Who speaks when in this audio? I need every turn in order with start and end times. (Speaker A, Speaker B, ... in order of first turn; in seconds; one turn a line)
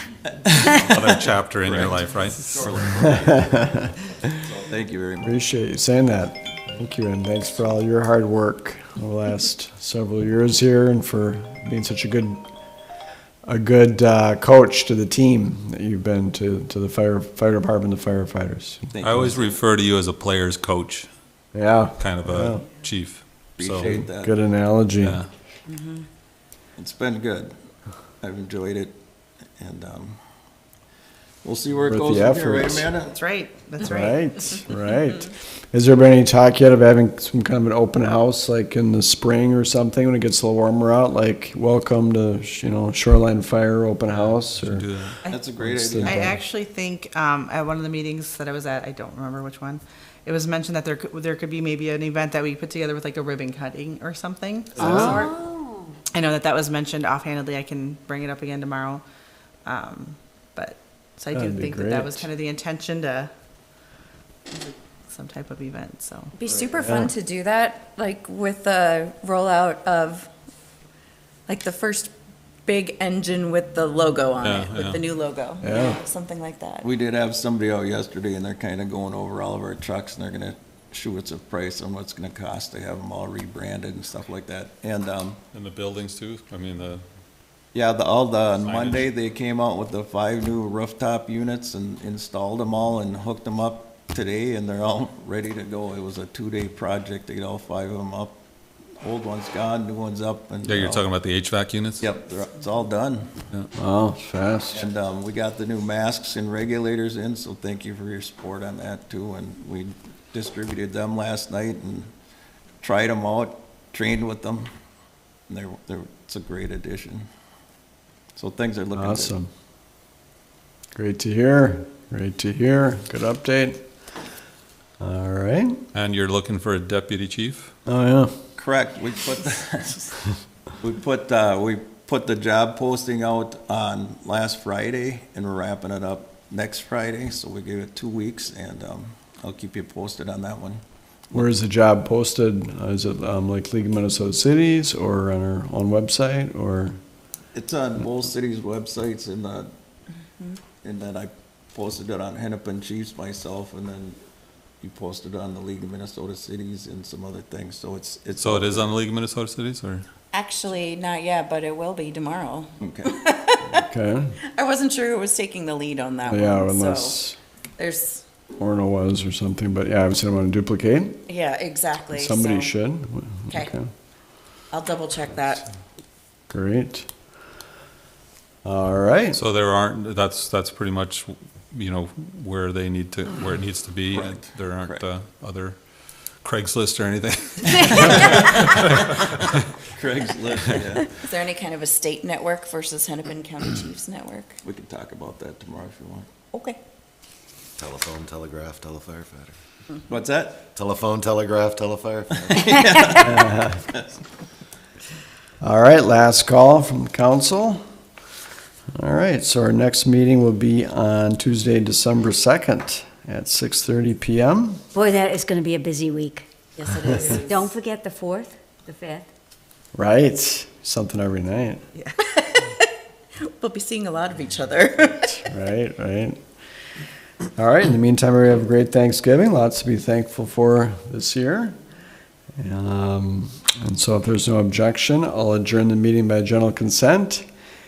Speaker A: 0.5-3.6
Speaker B: 0.7-3.0
Speaker C: 3.4-3.9
Speaker A: 4.2-5.4
Speaker C: 5.2-12.4
Speaker C: 13.4-19.3
Speaker A: 19.0-19.6
Speaker B: 19.0-21.1
Speaker C: 21.5-22.6
Speaker B: 22.0-23.9
Speaker A: 23.6-24.3
Speaker C: 23.8-25.2
Speaker B: 25.0-25.3
Speaker D: 25.7-26.1
Speaker A: 26.8-27.5
Speaker A: 28.2-28.9
Speaker A: 29.6-30.2
Speaker A: 31.4-33.1
Speaker C: 31.9-32.9
Speaker E: 33.1-34.2
Speaker C: 33.9-44.8
Speaker B: 44.1-45.2
Speaker A: 45.3-46.3
Speaker C: 45.6-46.4
Speaker E: 46.0-55.3
Speaker A: 54.8-55.1
Speaker F: 54.8-55.9
Speaker E: 56.1-59.0
Speaker E: 59.6-63.3
Speaker C: 61.3-62.3
Speaker E: 64.5-66.3
Speaker D: 66.3-70.3
Speaker C: 66.8-67.1
Speaker D: 71.5-72.1
Speaker D: 72.7-76.9
Speaker B: 74.4-75.0
Speaker C: 75.6-76.0
Speaker A: 76.8-85.4
Speaker B: 85.5-87.0
Speaker A: 87.7-98.4
Speaker B: 88.6-89.1
Speaker A: 99.0-101.0
Speaker B: 100.7-102.1
Speaker A: 102.0-103.3
Speaker C: 103.7-104.8
Speaker A: 104.7-112.1
Speaker A: 112.8-114.7
Speaker A: 115.5-117.2
Speaker A: 118.3-119.3
Speaker C: 118.9-119.5
Speaker C: 120.9-123.8
Speaker C: 125.0-125.8
Speaker B: 125.9-127.7
Speaker C: 127.9-128.3
Speaker A: 128.6-130.1
Speaker A: 130.8-140.8
Speaker C: 141.3-147.0
Speaker A: 147.5-149.7
Speaker A: 150.8-154.2
Speaker A: 154.8-159.0
Speaker B: 158.4-160.0
Speaker D: 160.3-163.8
Speaker A: 162.8-163.1
Speaker C: 163.7-164.4
Speaker D: 164.5-167.2
Speaker C: 166.3-167.4
Speaker D: 167.8-168.2
Speaker C: 168.6-171.2
Speaker D: 171.3-172.7
Speaker C: 172.1-173.8
Speaker D: 174.7-175.6
Speaker C: 176.5-177.1
Speaker C: 178.6-179.4
Speaker B: 179.3-185.8
Speaker A: 184.1-185.0
Speaker B: 186.4-189.1
Speaker A: 187.8-189.1
Speaker A: 189.8-191.1
Speaker D: 191.1-194.6
Speaker A: 194.6-196.3
Speaker D: 196.5-196.8
Speaker G: 197.8-199.6
Speaker A: 200.1-200.7
Speaker G: 200.7-202.7
Speaker A: 202.5-204.0
Speaker C: 203.2-203.8
Speaker C: 205.6-207.8
Speaker C: 209.0-214.8
Speaker F: 214.9-216.5
Speaker D: 216.8-217.7
Speaker F: 217.1-219.3
Speaker C: 219.9-221.8
Speaker D: 222.0-222.8
Speaker D: 223.4-225.4
Speaker C: 225.4-226.4
Speaker C: 227.6-231.8
Speaker C: 232.6-237.4